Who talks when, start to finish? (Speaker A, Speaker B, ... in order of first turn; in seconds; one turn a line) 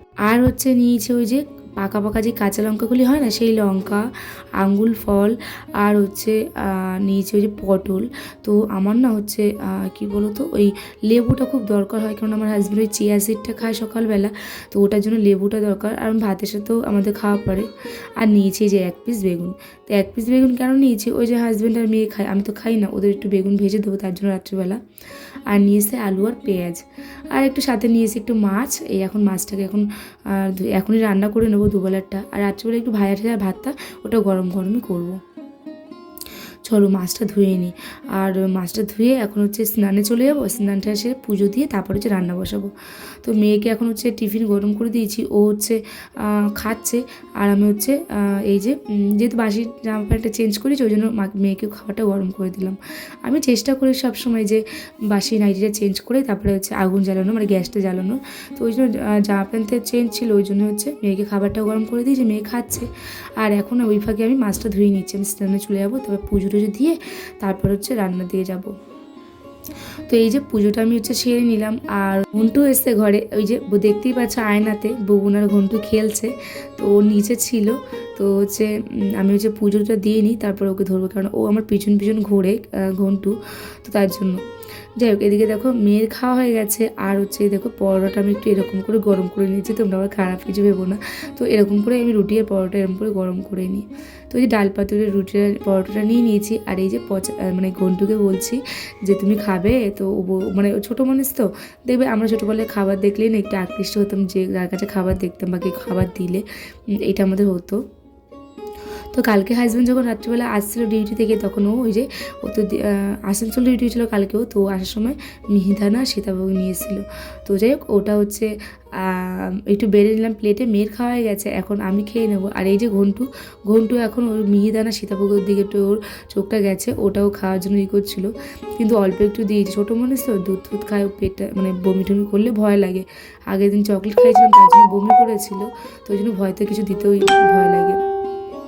Speaker A: 0.2-17.7
Speaker A: 18.2-24.8
Speaker A: 25.5-35.2
Speaker A: 36.7-68.7
Speaker A: 70.1-84.4
Speaker A: 85.0-106.4
Speaker A: 107.0-107.8
Speaker A: 109.1-138.0